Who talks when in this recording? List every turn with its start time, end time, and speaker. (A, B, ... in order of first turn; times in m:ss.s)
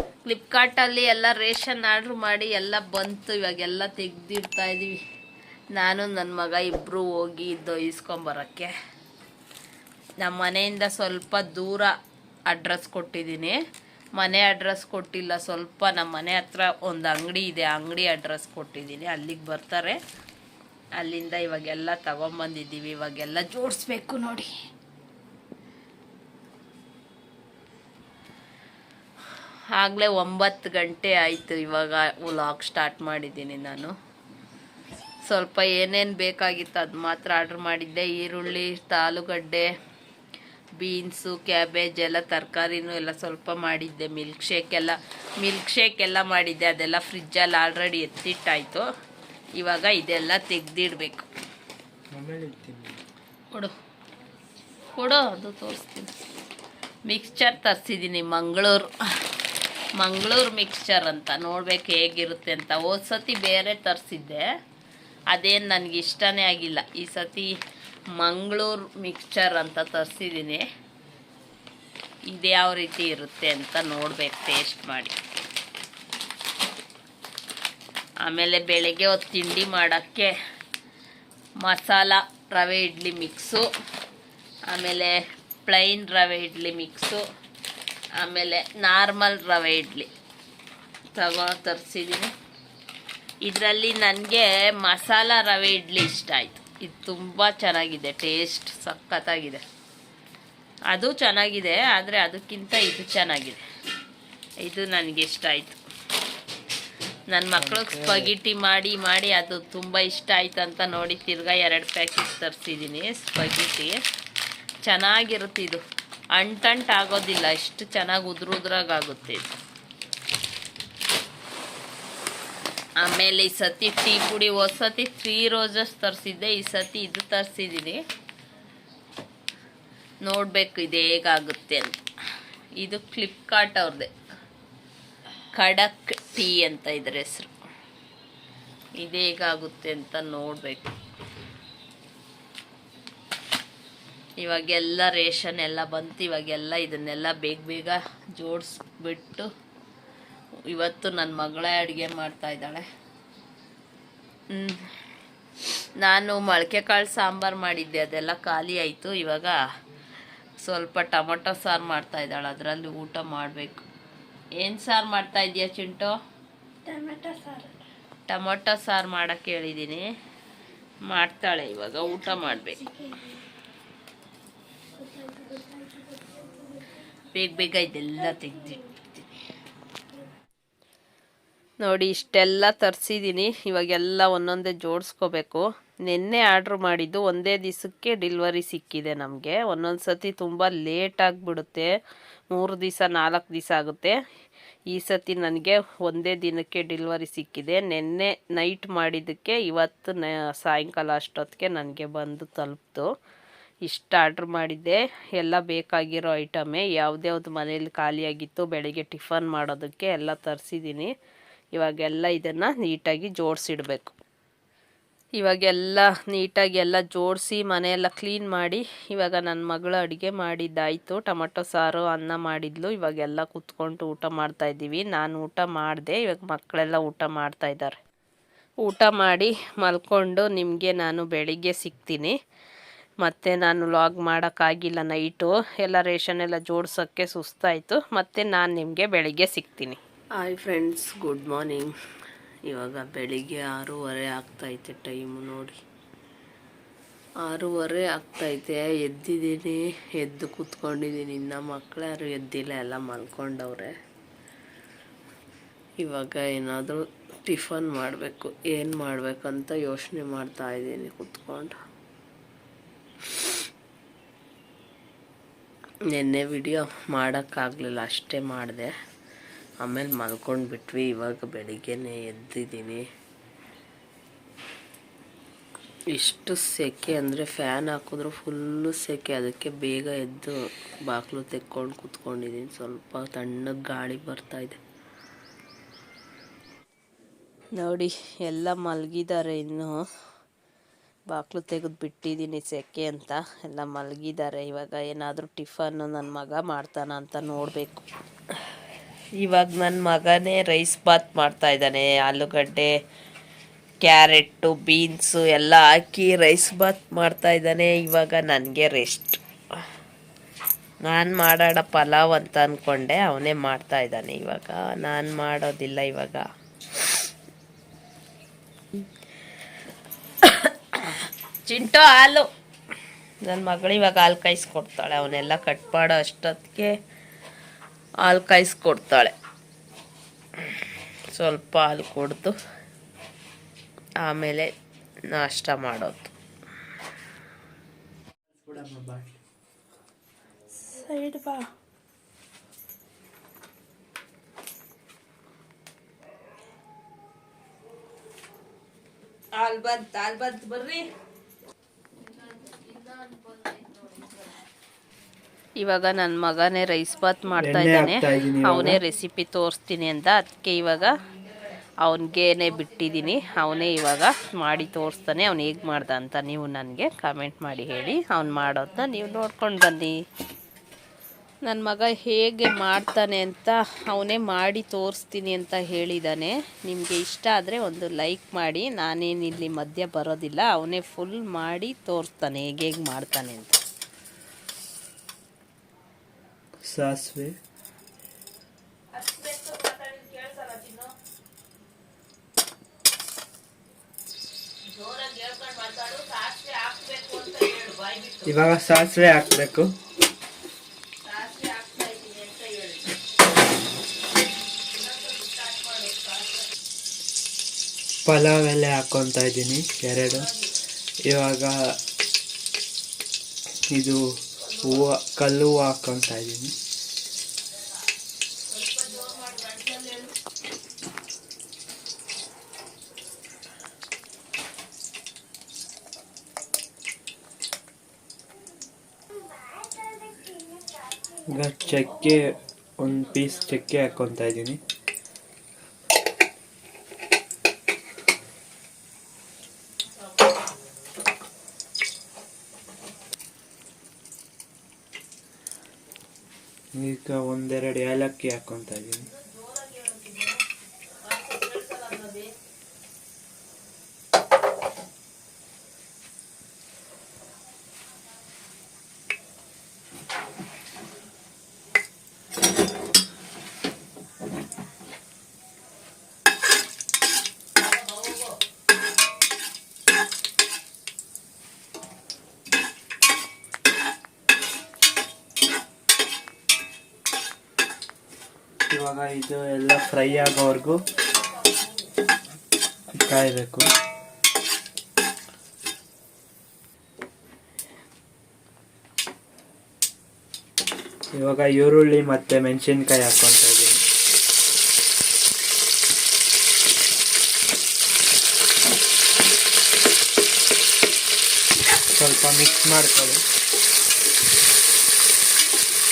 0:00.2-0:05.0 A
0:05.7-0:08.7 A
0:10.2-0:11.9 A
0:12.5-0:13.6 A
0:14.2-0:20.0 A
0:21.0-0:24.5 A
0:29.7-0:33.9 A
0:35.3-0:39.7 A
0:40.8-0:48.8 A
0:49.6-0:51.3 A
0:52.1-0:53.0 B
0:54.9-0:56.1 A
0:57.1-0:58.9 A
1:00.0-1:04.4 A
1:05.3-1:07.5 A
1:08.2-1:10.6 A
1:12.3-1:15.1 A
1:18.2-1:20.3 A
1:21.6-1:23.6 A
1:24.7-1:27.2 A
1:28.2-1:30.1 A
1:31.1-1:32.3 A
1:33.4-1:39.6 A
1:40.9-1:43.6 A
1:44.6-1:45.8 A
1:47.3-1:53.9 A
1:47.6-1:48.3 B
1:54.8-1:55.8 A
1:56.4-1:59.5 A
2:03.0-2:08.0 A
2:10.2-2:12.0 A
2:12.8-2:14.1 A
2:15.5-2:17.5 A
2:19.0-2:20.9 A
2:24.4-2:29.5 A
2:30.7-2:32.8 A
2:34.5-2:34.9 A
2:36.0-2:39.6 A
2:40.6-2:43.8 A
2:44.6-2:46.1 A
2:46.8-2:47.7 C
2:48.3-2:50.0 A
2:51.1-2:53.0 A
2:53.0-2:53.3 C
2:55.0-2:56.8 C
2:57.3-2:59.3 A
3:01.8-3:11.9 A
3:12.5-3:14.1 A
3:14.9-3:23.1 A
3:23.8-3:31.1 A
3:31.7-3:34.2 A
3:35.4-3:48.0 A
3:48.8-3:52.3 A
3:53.2-4:01.9 A
4:02.7-4:05.8 A
4:07.4-4:13.9 A
4:16.0-4:21.8 A
4:26.1-4:28.9 A
4:29.8-4:33.0 A
4:36.1-4:44.8 A
4:47.8-4:50.0 A
4:51.3-4:58.0 A
4:59.3-5:02.9 A
5:04.0-5:09.8 A
5:11.0-5:16.5 A
5:20.4-5:22.5 A
5:23.4-5:27.0 A
5:28.2-5:29.3 A
5:30.6-5:32.5 A
5:34.2-5:34.7 A
5:35.3-5:36.3 A
5:38.5-5:39.4 B
5:40.9-5:41.6 C
5:41.0-5:41.4 A
5:49.5-5:51.1 A
5:52.4-5:54.3 A
5:55.8-6:01.2 A
5:57.6-5:59.0 B
6:02.0-6:10.2 A
6:11.6-6:23.8 A
6:26.8-6:27.5 B
6:29.1-6:31.1 A
6:34.9-6:38.6 A
6:38.4-6:40.0 B
6:41.2-6:43.2 A
6:44.9-6:46.7 A
6:48.2-6:50.5 B
6:50.3-6:50.7 A
6:51.2-6:51.8 B
6:53.9-6:54.2 B
6:54.6-6:55.0 A
6:54.8-6:56.7 B
6:58.7-7:00.3 A
7:11.5-7:14.8 B
7:26.9-7:29.3 B
7:29.2-7:30.6 A
7:31.2-7:32.5 A
7:47.8-7:48.5 A
7:58.9-8:01.0 B
8:01.3-8:01.9 A
8:03.1-8:03.9 B
8:11.3-8:14.0 B
8:22.1-8:23.4 B